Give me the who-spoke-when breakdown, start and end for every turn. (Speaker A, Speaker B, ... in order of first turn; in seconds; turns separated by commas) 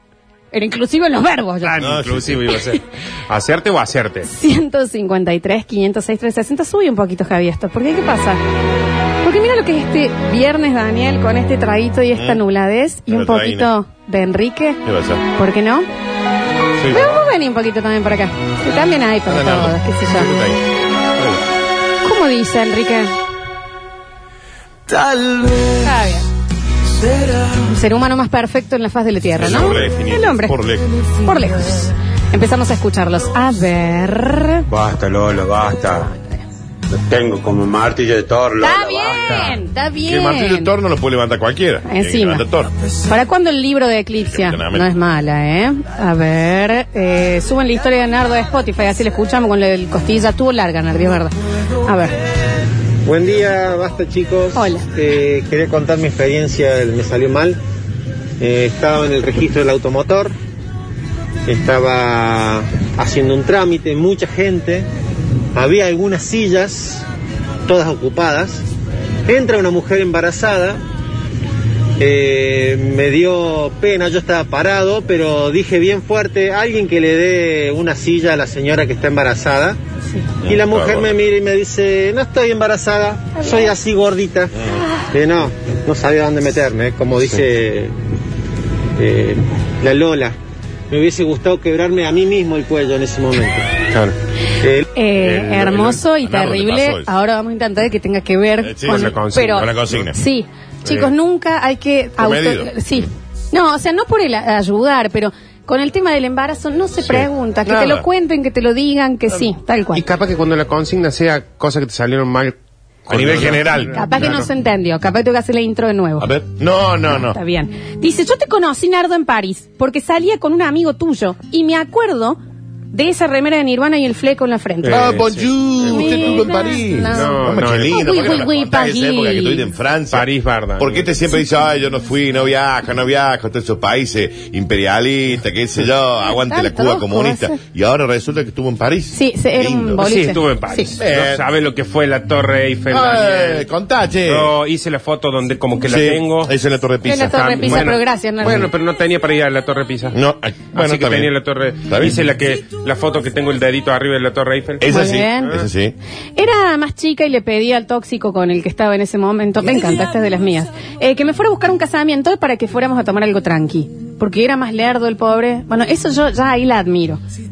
Speaker A: 0.5-1.9, Speaker B: 1.6-4.3, Speaker C: 1.8-2.4, Speaker A: 4.2-8.4, Speaker A: 9.2-14.8, Speaker C: 12.1-12.4, Speaker C: 13.1-13.7, Speaker C: 14.8-15.2, Speaker A: 15.3-15.8, Speaker A: 16.9-20.4, Speaker C: 19.3-20.6, Speaker A: 22.0-23.1, Speaker A: 25.8-26.2, Speaker A: 27.6-34.6, Speaker C: 29.4-30.9, Speaker D: 34.7-36.0, Speaker D: 37.1-39.2, Speaker A: 38.6-40.7, Speaker C: 40.1-42.7, Speaker A: 41.9-42.4, Speaker A: 43.1-51.3, Speaker C: 44.2-44.9, Speaker A: 51.8-52.1, Speaker E: 53.0-57.6, Speaker A: 54.5-54.9, Speaker E: 58.4-60.3, Speaker E: 61.5-64.8, Speaker E: 65.5-67.0, Speaker E: 67.7-68.6, Speaker E: 69.3-70.8, Speaker E: 72.0-79.8, Speaker E: 80.4-84.5, Speaker C: 80.5-81.2, Speaker A: 83.3-83.7, Speaker E: 85.1-87.9, Speaker E: 89.0-90.3, Speaker E: 90.9-93.7, Speaker E: 94.6-94.9, Speaker A: 94.9-110.0, Speaker B: 95.2-96.0, Speaker C: 96.2-97.1, Speaker C: 98.6-99.0, Speaker B: 98.8-99.7, Speaker C: 99.6-100.1, Speaker C: 102.2-103.0, Speaker C: 107.1-108.0, Speaker B: 109.9-114.5, Speaker C: 113.1-113.9, Speaker A: 113.9-116.3, Speaker C: 116.2-117.4, Speaker A: 117.1-122.4, Speaker A: 122.9-125.2, Speaker B: 124.8-126.2, Speaker C: 124.9-130.2, Speaker A: 125.8-129.7, Speaker B: 127.1-128.6, Speaker B: 130.1-131.1, Speaker C: 130.8-140.0, Speaker A: 136.2-137.6, Speaker A: 139.1-140.9, Speaker B: 140.0-143.7, Speaker C: 141.0-141.4, Speaker C: 142.9-144.5, Speaker B: 144.2-146.5, Speaker C: 145.9-147.8, Speaker A: 147.0-148.7, Speaker B: 147.3-150.2, Speaker C: 150.1-151.3, Speaker B: 150.7-154.8, Speaker C: 151.9-152.2, Speaker C: 154.8-155.9, Speaker A: 154.9-155.6, Speaker A: 156.3-167.2